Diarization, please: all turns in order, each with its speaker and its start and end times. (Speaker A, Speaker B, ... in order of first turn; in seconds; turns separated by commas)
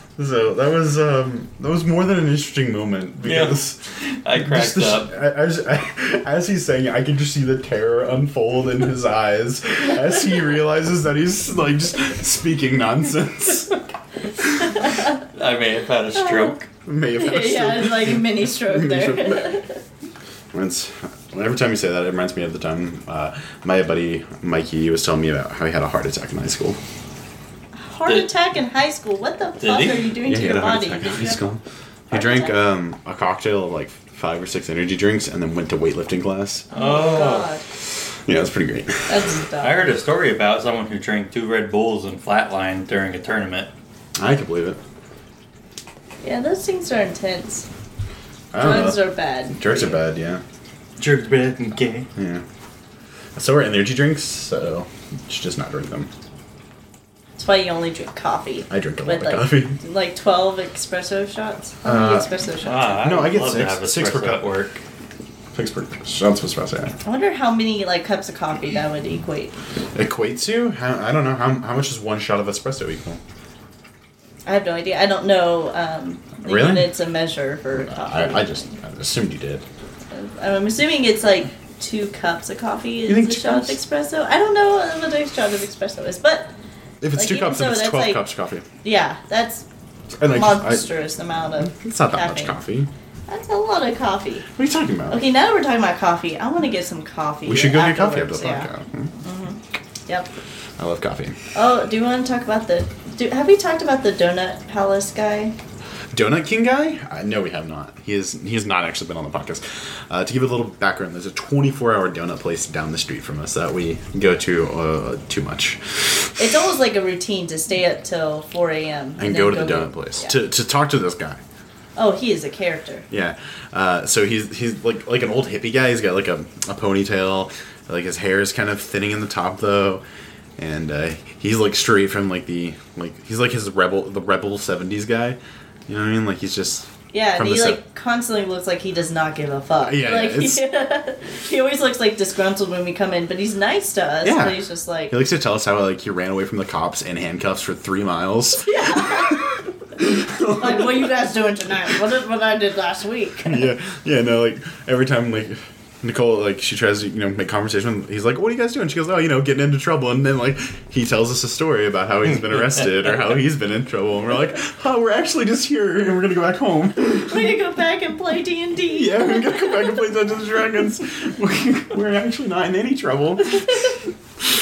Speaker A: 0.2-13.8, Speaker B: 3.2-5.1, Speaker A: 14.4-14.8, Speaker C: 14.7-15.2, Speaker B: 15.3-16.7, Speaker C: 16.2-16.6, Speaker A: 16.9-19.6, Speaker C: 17.2-19.8, Speaker A: 20.5-26.8, Speaker C: 27.8-31.5, Speaker B: 29.6-30.1, Speaker A: 30.2-36.7, Speaker C: 32.1-32.5, Speaker B: 36.7-37.5, Speaker C: 36.7-37.7, Speaker A: 38.3-39.2, Speaker C: 39.1-39.9, Speaker B: 39.6-43.7, Speaker A: 44.2-44.8, Speaker C: 46.2-47.7, Speaker A: 48.5-50.4, Speaker C: 48.6-50.0, Speaker B: 51.0-52.1, Speaker A: 52.1-52.4, Speaker A: 53.4-56.1, Speaker C: 57.4-62.9, Speaker A: 58.7-59.8, Speaker A: 61.8-62.3, Speaker B: 62.6-64.8, Speaker A: 63.0-64.5, Speaker A: 65.5-67.0, Speaker C: 67.0-69.5, Speaker A: 70.0-73.2, Speaker C: 74.5-78.7, Speaker A: 76.4-76.9, Speaker A: 77.8-79.7, Speaker C: 80.1-86.5, Speaker A: 83.1-83.8, Speaker A: 87.0-88.6, Speaker C: 87.2-88.2, Speaker C: 88.8-89.7, Speaker A: 90.2-90.9, Speaker C: 90.3-92.6, Speaker A: 91.6-92.9, Speaker C: 93.3-94.5, Speaker A: 94.5-95.2, Speaker C: 95.1-98.7, Speaker A: 97.5-99.1, Speaker C: 99.2-100.3, Speaker A: 100.8-101.4, Speaker C: 101.5-105.5, Speaker A: 106.1-116.4, Speaker C: 116.4-120.3, Speaker A: 119.2-121.4, Speaker C: 122.0-123.1, Speaker A: 123.1-130.0, Speaker A: 130.6-137.8, Speaker C: 137.1-145.1, Speaker A: 139.8-140.6, Speaker A: 144.2-144.6, Speaker A: 145.1-151.1, Speaker C: 148.6-149.4, Speaker C: 150.5-153.7, Speaker A: 153.5-167.6, Speaker C: 167.3-170.1, Speaker A: 168.9-173.9